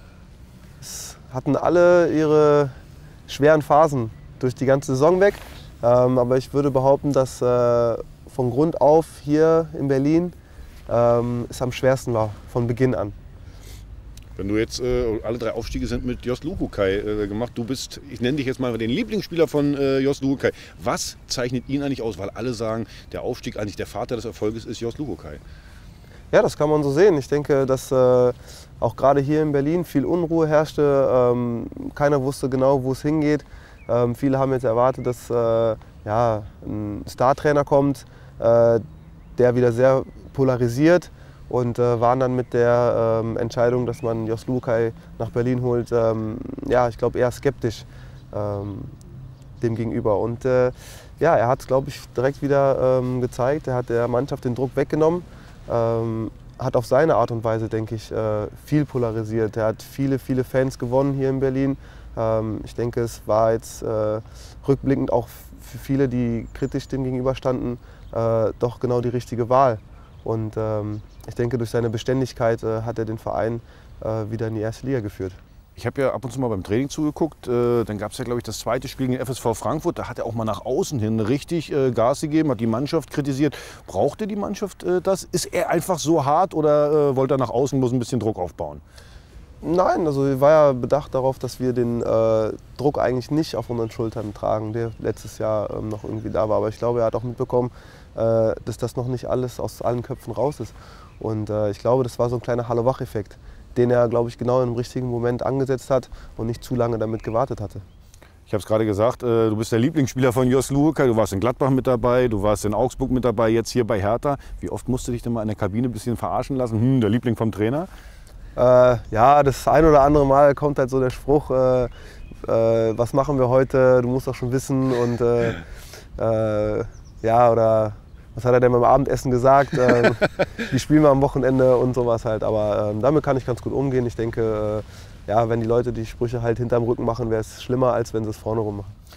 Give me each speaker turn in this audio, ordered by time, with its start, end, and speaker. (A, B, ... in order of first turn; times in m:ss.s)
0:00.8-0:02.8 A
0:03.3-0:10.4 A
0:10.9-0:13.2 A
0:14.4-0:25.4 B
0:26.3-0:38.8 A
0:39.4-0:49.0 A
0:49.6-1:15.4 A
1:15.8-1:28.8 B
1:29.6-1:47.8 A
1:48.5-1:57.9 B
1:58.6-2:01.9 A
2:02.4-2:05.6 A
2:06.2-2:19.0 A